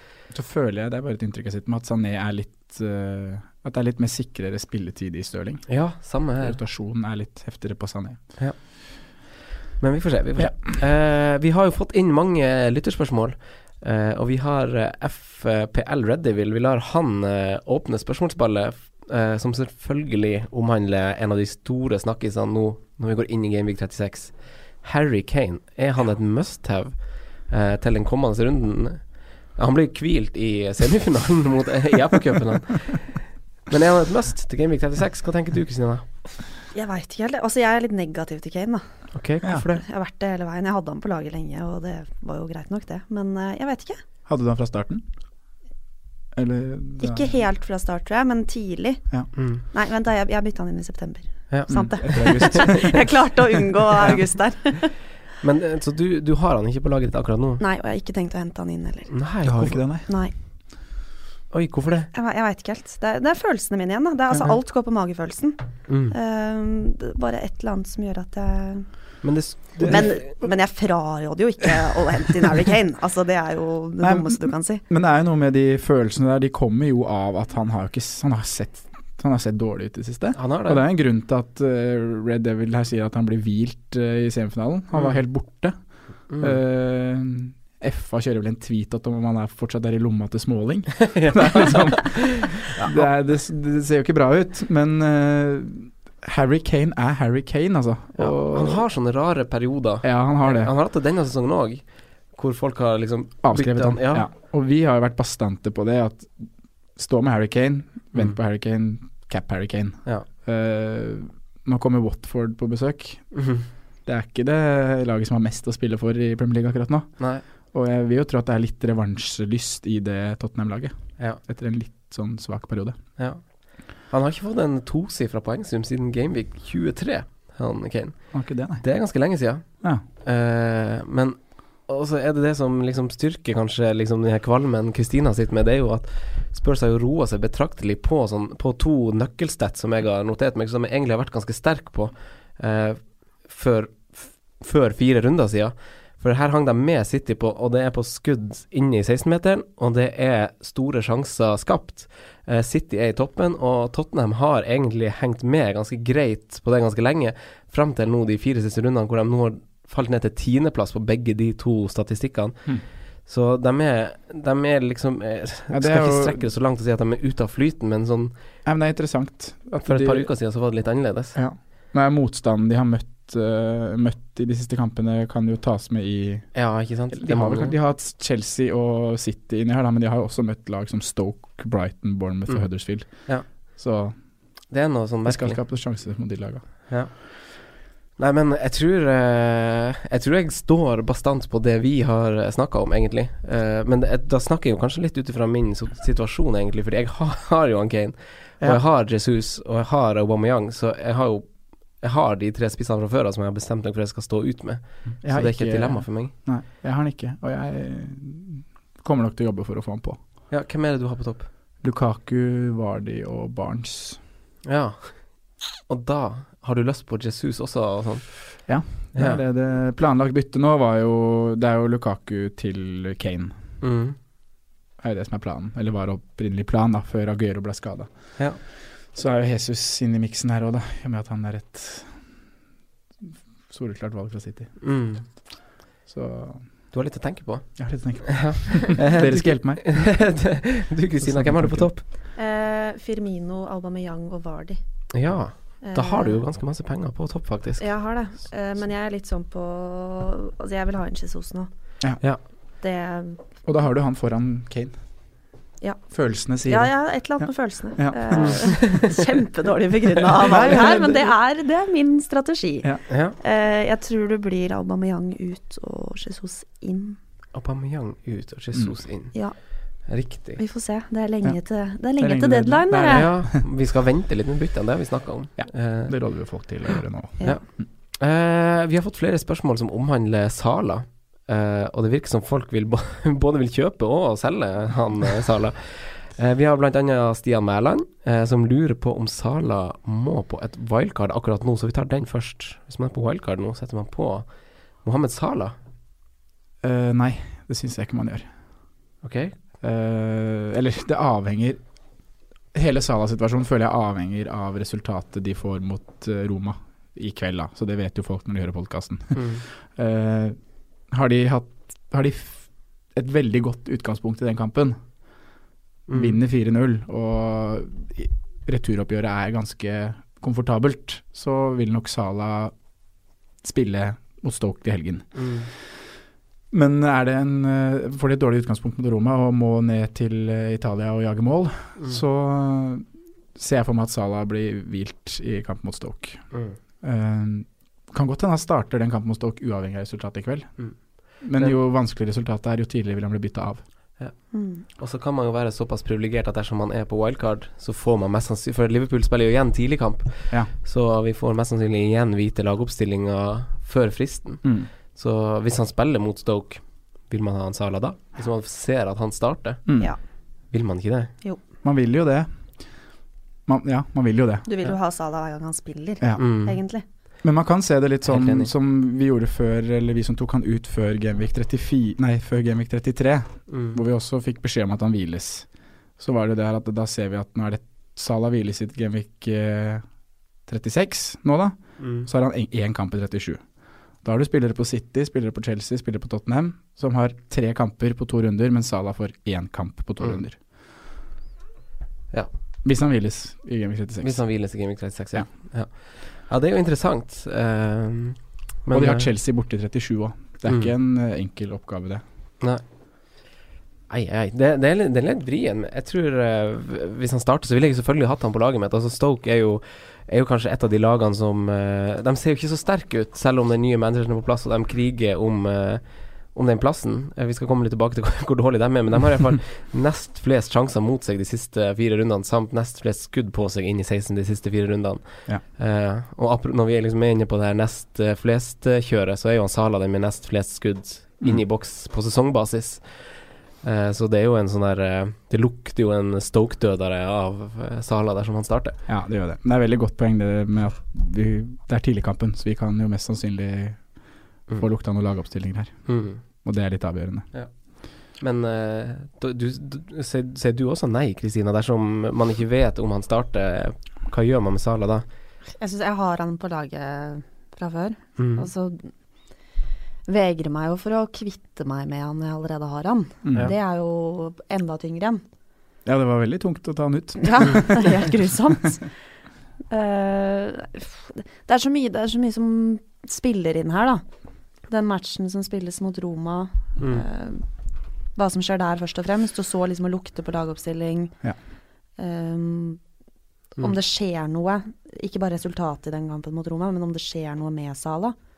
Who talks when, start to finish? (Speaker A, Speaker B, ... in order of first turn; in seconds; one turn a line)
Speaker A: 0.3-5.7
Speaker B: 5.7-6.6
Speaker A: 6.4-8.2
Speaker B: 8.4-36.0
Speaker C: 36.7-38.8
Speaker B: 39.1-39.8
Speaker C: 39.7-44.0
Speaker A: 44.2-45.0
Speaker A: 46.3-47.3
Speaker C: 47.0-49.0
Speaker B: 49.4-49.6
Speaker C: 49.7-54.9
Speaker B: 51.5-52.8
Speaker A: 51.7-52.8
Speaker B: 55.4-57.6
Speaker C: 57.6-59.1
Speaker B: 59.1-59.8
Speaker A: 59.4-60.1
Speaker C: 60.0-60.3
Speaker B: 61.5-62.1
Speaker C: 62.1-69.1
Speaker B: 65.9-66.1
Speaker B: 69.2-70.2
Speaker C: 69.8-74.8
Speaker A: 74.0-85.8
Speaker B: 80.3-80.8
Speaker A: 86.3-98.8
Speaker B: 86.3-86.6
Speaker B: 91.0-93.0
Speaker B: 98.2-104.3
Speaker A: 100.0-100.7
Speaker A: 103.4-113.4
Speaker B: 113.3-113.7
Speaker A: 114.0-123.0
Speaker B: 123.2-168.3
Speaker A: 128.3-128.8
Speaker A: 165.7-166.4
Speaker A: 168.6-170.3
Speaker B: 169.8-171.4
Speaker A: 171.3-176.6
Speaker B: 176.5-177.7
Speaker A: 177.1-184.1
Speaker B: 182.5-183.4
Speaker B: 184.7-185.6
Speaker A: 185.2-186.9
Speaker B: 186.9-206.3
Speaker A: 205.2-210.2
Speaker B: 210.5-211.5
Speaker A: 211.8-214.2
Speaker B: 214.6-219.4
Speaker A: 218.7-223.6
Speaker B: 223.8-224.2
Speaker A: 225.0-228.4
Speaker A: 229.1-232.2
Speaker A: 233.2-234.8
Speaker B: 234.8-235.2
Speaker A: 236.1-236.7
Speaker B: 236.9-242.0
Speaker A: 237.8-240.1
Speaker A: 241.2-241.9
Speaker C: 242.3-244.8
Speaker B: 245.1-247.9
Speaker C: 245.8-246.4
Speaker C: 247.8-251.7
Speaker C: 252.8-253.4
Speaker A: 253.6-255.0
Speaker C: 255.8-267.2
Speaker A: 256.1-258.8
Speaker B: 258.3-259.1
Speaker A: 260.4-261.3
Speaker B: 263.1-263.4
Speaker B: 267.5-269.4
Speaker B: 270.0-270.6
Speaker C: 270.6-273.3
Speaker A: 272.2-273.6
Speaker B: 273.1-276.7
Speaker A: 275.6-277.8
Speaker B: 278.1-295.7
Speaker A: 296.8-298.5
Speaker B: 299.2-299.6
Speaker A: 299.8-301.8
Speaker A: 302.7-310.6
Speaker B: 309.3-309.6
Speaker A: 311.1-315.0
Speaker B: 316.1-316.4
Speaker A: 316.1-322.7
Speaker A: 323.6-325.4
Speaker B: 325.3-325.7
Speaker A: 326.7-343.8
Speaker B: 336.5-336.8
Speaker B: 340.8-341.8
Speaker B: 344.2-360.0
Speaker C: 344.5-344.8
Speaker A: 354.6-354.9
Speaker A: 359.9-360.1
Speaker B: 360.7-361.3
Speaker A: 361.8-362.5
Speaker A: 363.7-364.7
Speaker C: 364.6-367.0
Speaker B: 366.4-366.8
Speaker A: 367.4-380.1
Speaker B: 368.2-368.7
Speaker B: 373.7-374.0
Speaker A: 380.6-383.6
Speaker B: 382.0-382.3
Speaker A: 384.2-390.6
Speaker A: 392.8-394.4
Speaker B: 394.2-399.3
Speaker A: 398.9-402.2
Speaker B: 404.1-439.0
Speaker A: 439.1-447.5
Speaker B: 446.1-446.4
Speaker B: 447.5-455.2
Speaker C: 455.7-459.1
Speaker B: 458.4-458.7
Speaker C: 460.2-465.4
Speaker A: 463.4-463.7
Speaker A: 466.0-468.1
Speaker C: 467.4-469.1
Speaker C: 469.9-474.2
Speaker C: 474.9-477.6
Speaker B: 477.0-477.2
Speaker C: 478.3-481.3
Speaker C: 482.2-483.0
Speaker C: 483.8-488.4